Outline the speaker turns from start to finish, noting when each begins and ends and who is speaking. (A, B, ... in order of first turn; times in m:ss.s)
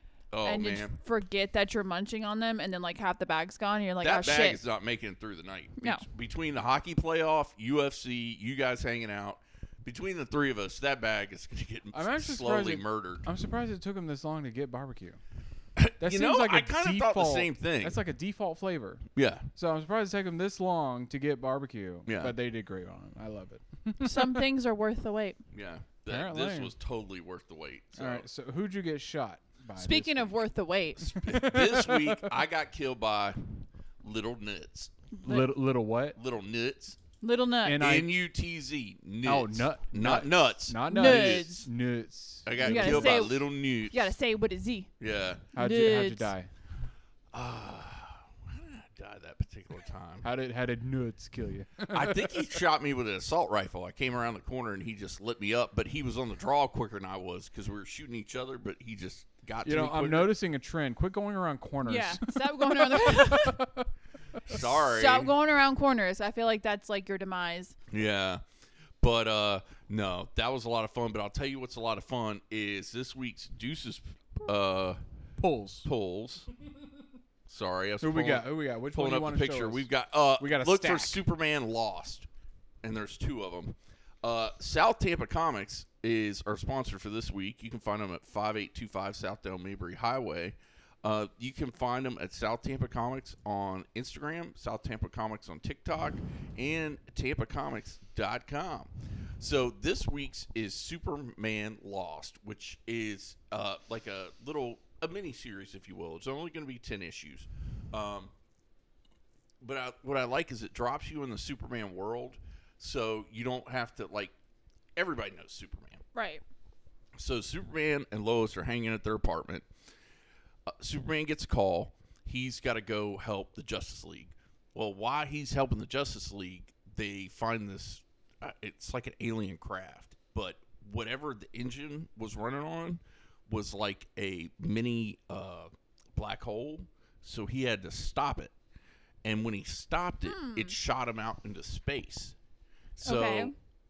0:00.3-0:01.0 A
0:00.4-0:04.6 B
0:04.0-0:13.2 A
0:11.9-0:15.2 C
0:15.8-0:18.0 A
0:16.0-0:24.4 C
0:19.2-0:19.5 A
0:22.1-0:22.3 A
0:24.0-0:25.4 B
0:25.5-0:28.2 A
0:26.1-0:26.7 C
0:27.9-0:30.3 C
0:29.8-0:31.1 B
0:31.0-0:34.9 A
0:31.1-0:32.3 C
0:35.1-0:35.5 B
0:35.2-0:36.2 C
0:36.2-0:37.0 A
0:37.2-0:37.9 B
0:37.6-0:38.1 C
0:37.8-0:41.7 A
0:39.2-0:43.3 C
0:40.9-0:41.6 B
0:42.4-0:44.0 A
0:42.6-0:44.9 B
0:45.0-0:45.4 A
0:45.5-0:46.3 B
0:45.5-0:46.5 C
0:47.3-0:50.3 A
0:50.2-0:52.6 C
0:51.9-1:00.3 A
0:59.6-1:04.6 C
1:01.9-1:03.6 B
1:04.4-1:05.3 A
1:04.5-1:07.8 B
1:07.9-1:08.4 A
1:09.0-1:15.0 A
1:15.4-1:15.9 C
1:15.8-1:16.5 A
1:17.5-1:22.3 A
1:18.0-1:21.2 C
1:22.8-1:48.3 A
1:49.6-1:54.3 A
1:55.0-1:56.0 A
1:56.1-1:56.4 B
1:57.2-1:59.6 A
2:00.7-2:18.5 A
2:19.2-2:22.3 A
2:20.2-2:20.8 B
2:23.0-2:23.5 A
2:23.0-2:23.5 B